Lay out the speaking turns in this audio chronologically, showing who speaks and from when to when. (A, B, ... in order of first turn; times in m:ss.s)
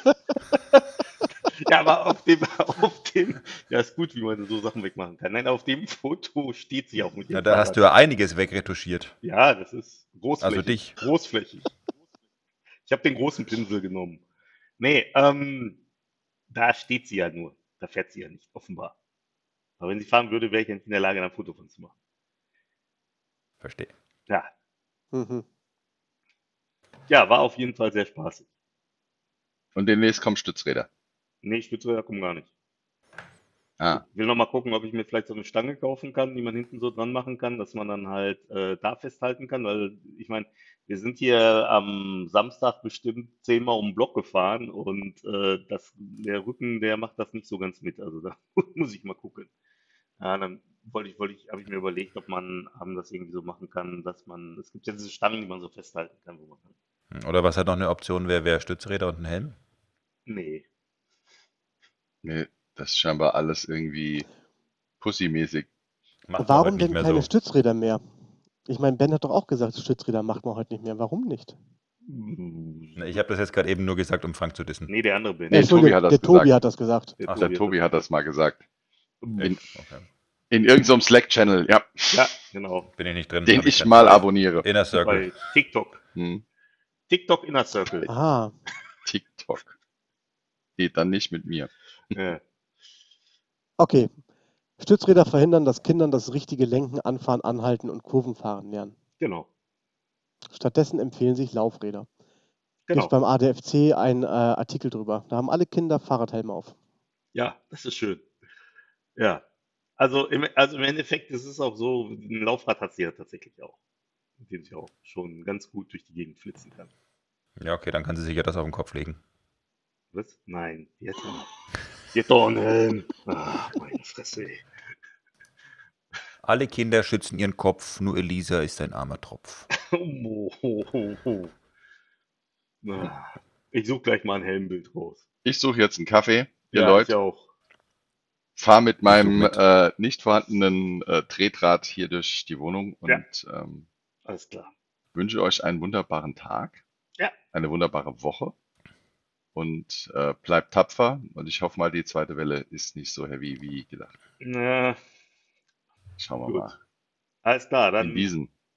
0:01.6-0:07.8 A
0:07.3-0:09.1 B
0:09.2-0:11.7 A
0:10.4-0:11.0 B
0:12.8-0:14.2 A
0:14.8-0:15.8 A
0:16.5-0:18.9 A
0:19.8-0:21.9 A
0:23.6-0:23.9 B
0:25.1-0:25.4 C
0:27.1-0:28.4 A
0:29.7-0:30.9 D
0:31.4-0:32.5 A
0:33.8-0:34.0 D
0:33.9-0:49.5 A
0:50.2-0:56.7 A
0:57.1-0:59.6 B
1:00.3-1:00.6 A
1:02.2-1:04.3 D
1:05.0-1:05.7 D
1:06.3-1:07.3 B
1:06.4-1:08.0 C
1:08.7-1:11.6 C
1:12.0-1:13.0 A
1:13.0-1:14.9 B
1:14.9-1:15.8 A
1:15.5-1:16.5 D
1:15.5-1:17.2 C
1:17.2-1:17.8 A
1:17.3-1:18.6 D
1:19.2-1:19.5 A
1:19.4-1:20.0 B
1:20.5-1:22.2 D
1:22.1-1:22.9 A
1:23.0-1:25.3 B
1:23.4-1:24.7 D
1:25.0-1:26.0 A
1:26.2-1:26.4 D
1:27.1-1:28.1 A
1:28.1-1:28.5 C
1:29.0-1:29.8 D
1:30.8-1:31.7 D
1:32.1-1:32.4 A
1:33.8-1:34.2 C
1:34.8-1:38.9 C
1:39.2-1:39.5 A
1:40.5-1:42.1 C
1:42.9-1:43.1 A
1:42.9-1:46.7 C
1:47.3-1:48.2 A
1:49.2-1:49.4 A
1:50.0-1:53.8 A
1:54.4-1:56.9 A
1:57.6-1:59.2 B
2:00.1-2:01.5 A
2:02.1-2:04.6 A
2:06.4-2:09.7 B
2:09.8-2:11.5 A
2:12.8-2:15.2 A
2:15.4-2:17.1 D
2:16.7-2:17.5 A
2:18.6-2:23.8 D
2:19.1-2:19.6 B
2:24.3-2:24.7 A
2:25.1-2:26.8 D
2:27.5-2:28.5 D
2:29.5-2:34.1 D
2:34.4-2:35.0 A
2:36.2-2:36.8 D
2:36.5-2:36.7 A
2:37.4-2:38.3 A
2:38.0-2:38.5 D